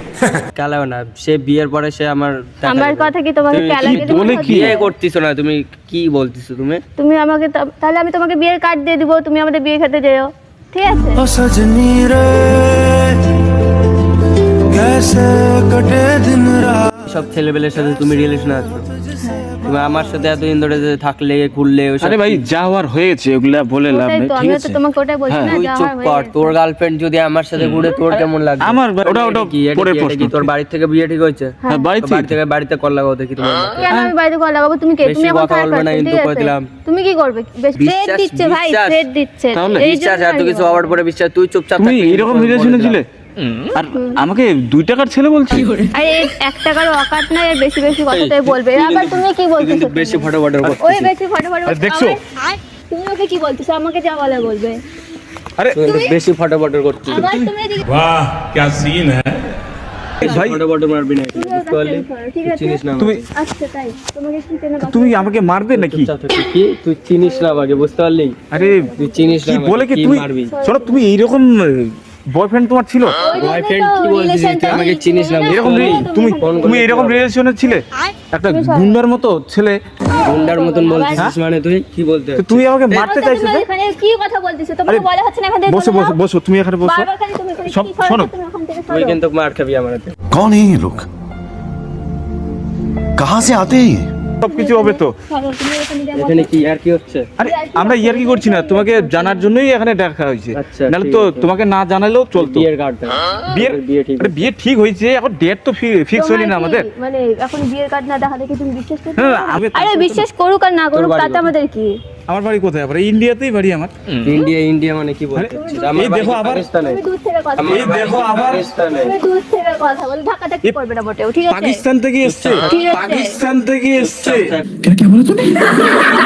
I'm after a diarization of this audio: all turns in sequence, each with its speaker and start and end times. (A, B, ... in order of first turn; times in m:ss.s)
0:00.5-0:06.8 A
0:02.6-0:04.9 B
0:03.8-0:04.8 C
0:07.0-0:11.3 B
0:11.3-0:13.1 D
0:14.7-0:16.7 D
0:15.9-0:18.9 A
0:19.2-0:19.6 B
0:19.6-0:22.4 A
0:22.0-0:25.5 C
0:23.9-0:26.5 B
0:25.4-0:34.0 A
0:27.6-0:30.5 C
0:31.7-0:32.4 C
0:33.8-0:41.0 B
0:35.0-0:36.7 A
0:37.8-0:43.0 A
0:39.5-0:39.8 C
0:41.8-0:45.7 C
0:43.9-0:44.2 B
0:45.8-0:50.3 B
0:48.1-0:51.1 A
0:50.8-0:52.4 B
0:51.7-0:52.2 C
0:52.9-0:54.8 B
0:55.6-0:55.9 C
0:55.7-0:57.3 A
0:55.9-0:56.1 B
0:57.1-0:58.0 B
0:57.2-0:59.4 C
1:00.2-1:00.6 C
1:00.2-1:03.3 A
1:01.3-1:02.8 B
1:03.0-1:03.2 C
1:03.3-1:05.3 B
1:04.8-1:06.1 C
1:05.7-1:08.4 A
1:08.5-1:13.2 C
1:08.5-1:09.4 B
1:09.0-1:10.5 A
1:10.5-1:11.0 B
1:13.2-1:16.8 B
1:13.3-1:17.2 A
1:15.4-1:19.8 C
1:18.5-1:19.0 B
1:20.1-1:21.3 B
1:20.2-1:23.1 A
1:22.4-1:23.6 C
1:22.9-1:26.2 B
1:25.7-1:27.1 C
1:26.8-1:29.2 B
1:27.7-1:28.3 C
1:28.9-1:30.2 A
1:30.3-1:31.0 D
1:33.2-1:34.1 D
1:34.4-1:35.1 C
1:34.4-1:36.5 B
1:36.2-1:37.3 A
1:37.4-1:42.7 C
1:37.4-1:39.5 B
1:40.5-1:41.5 A
1:42.4-1:44.5 A
1:43.5-1:46.9 C
1:46.1-1:51.9 B
1:49.2-1:50.2 C
1:50.9-1:51.5 A
1:52.3-1:54.4 C
1:54.2-1:57.0 A
1:55.3-1:56.7 C
1:55.5-1:56.2 B
1:56.8-1:57.9 B
1:57.6-1:59.1 A
1:57.6-1:58.7 C
1:59.0-2:01.8 B
2:01.5-2:06.0 C
2:02.2-2:02.9 A
2:02.6-2:03.4 B
2:04.0-2:04.7 A